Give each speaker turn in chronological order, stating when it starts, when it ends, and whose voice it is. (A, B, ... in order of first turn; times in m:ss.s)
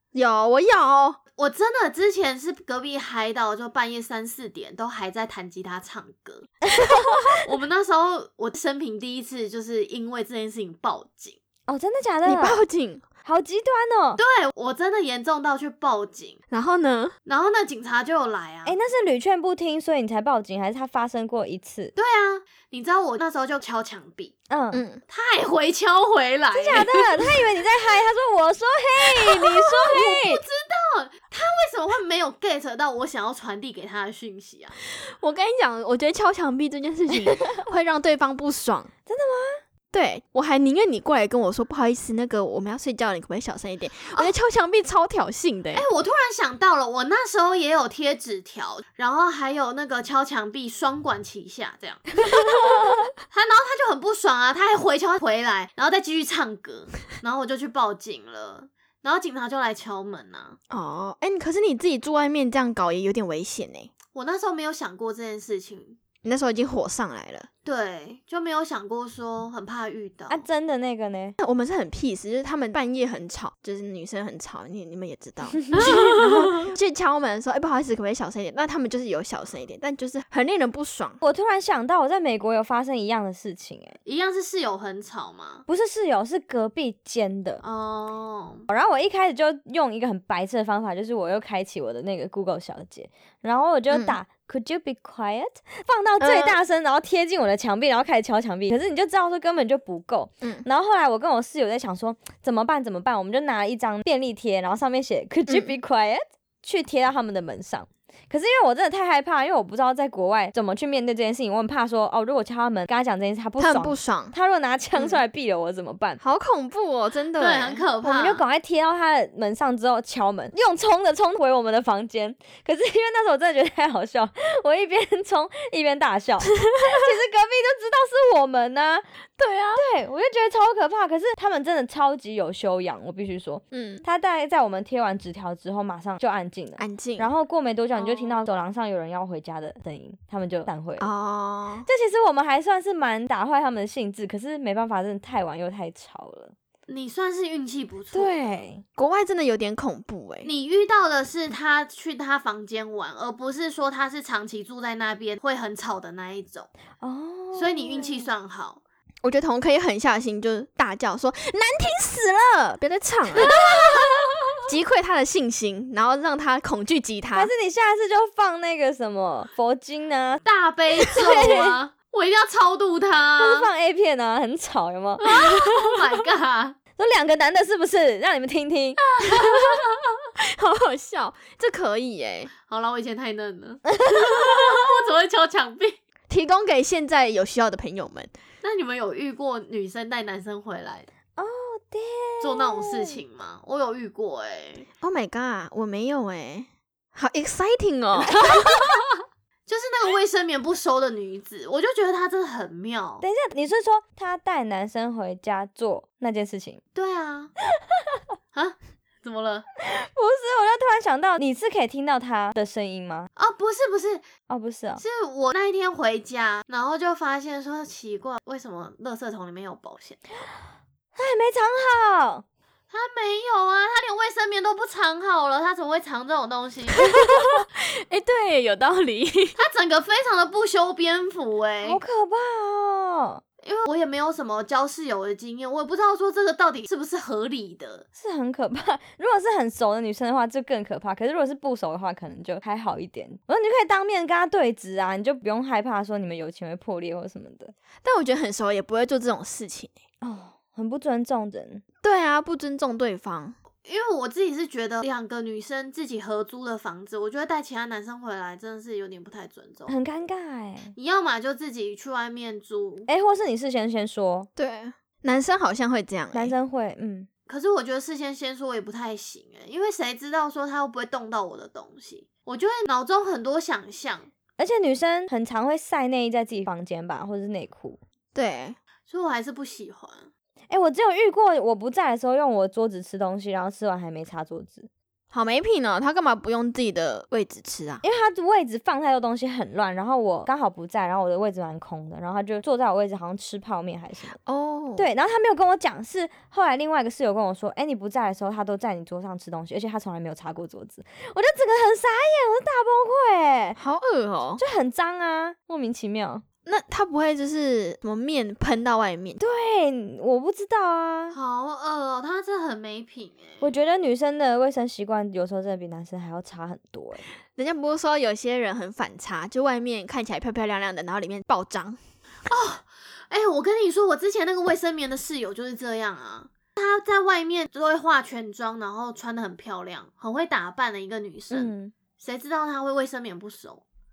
0:00.1-0:01.2 A
0:01.4-0:06.5 B
0:06.7-0:07.3 C
0:07.4-0:11.4 B
0:11.7-0:12.6 C
0:12.2-0:13.0 A
0:13.2-0:14.2 C
0:14.2-0:16.4 B
0:16.5-0:17.2 A
0:17.3-0:18.8 B
0:18.6-0:21.9 C
0:22.0-0:24.3 B
0:24.5-0:24.8 C
0:24.7-0:25.0 A
0:25.1-0:27.3 B
0:26.5-0:30.4 C
0:29.5-0:34.8 B
0:34.8-0:38.9 A
0:37.2-0:37.6 C
0:39.1-0:39.6 C
0:39.9-0:45.8 A
0:45.7-0:52.6 B
0:53.2-1:00.6 B
1:00.7-1:03.9 A
1:04.1-1:06.0 B
1:06.2-1:07.5 A
1:07.6-1:10.5 B
1:10.3-1:11.4 C
1:11.4-1:21.2 A
1:15.8-1:16.2 B
1:21.2-1:24.0 C
1:24.1-1:25.6 B
1:25.7-1:27.6 C
1:27.6-1:28.7 B
1:28.7-1:56.2 C
1:33.9-1:34.2 A
1:36.2-1:36.6 A
1:45.5-1:45.8 A
1:53.6-1:54.4 A
1:55.0-1:55.2 A
1:56.2-1:57.8 A
1:57.4-1:58.4 B
1:58.0-2:09.0 C
2:09.4-2:09.8 A
2:09.8-2:21.1 C
2:13.7-2:14.0 A
2:16.8-2:17.3 A
2:18.0-2:18.5 B
2:21.0-2:21.9 A
2:21.9-2:26.6 C
2:26.9-2:28.6 B
2:28.1-2:28.8 C
2:29.0-2:30.5 A
2:30.4-2:36.7 B
2:37.0-2:38.3 C
2:37.5-2:38.8 B
2:39.2-2:44.0 A
2:43.5-2:44.0 B
2:44.5-2:47.5 A
2:47.3-2:50.4 C
2:50.4-2:53.7 B
2:51.2-2:51.8 C
2:51.3-2:51.6 A
2:53.4-2:55.2 C
2:55.2-2:56.8 B
2:57.0-2:59.0 C
2:59.2-2:59.8 A
2:59.2-3:00.0 B
3:00.4-3:02.5 A
3:02.6-3:06.0 B
3:04.0-3:04.4 C
3:06.3-3:08.3 A
3:08.6-3:11.1 B
3:11.4-3:13.2 C
3:12.4-3:14.9 B
3:15.0-3:18.7 A
3:18.3-3:18.8 C
3:19.7-3:23.2 B
3:23.2-3:26.8 C
3:27.0-3:27.5 B
3:28.5-3:29.7 B
3:29.8-3:33.3 C
3:33.4-3:34.2 B
3:34.5-3:35.0 C
3:35.0-3:40.2 B
3:41.2-3:42.4 C
3:42.9-3:47.4 B
3:47.0-3:49.6 A
3:49.6-3:52.0 B
3:51.8-3:53.4 C
3:53.6-3:58.1 B
3:58.2-4:07.7 C
4:08.0-4:09.9 A
4:10.2-4:11.8 C
4:12.0-4:13.6 A
4:13.8-4:19.9 B
4:19.9-4:20.9 C
4:21.0-4:23.1 B
4:23.1-4:24.5 C
4:24.6-4:26.6 A
4:26.3-4:27.3 C
4:27.5-4:34.3 B
4:34.6-4:38.0 C
4:38.4-4:38.8 A
4:39.1-4:40.3 B
4:40.7-4:44.9 C
4:45.3-4:48.0 A
4:48.0-4:54.4 C
4:54.5-4:55.1 A
4:55.0-5:03.8 C
5:03.8-5:04.6 A
5:04.6-5:06.4 C
5:06.7-5:09.4 A
5:09.4-5:11.4 C
5:11.3-5:13.7 B
5:13.6-5:17.2 C
5:17.6-5:22.0 A
5:22.5-5:33.8 B
5:31.5-5:31.9 C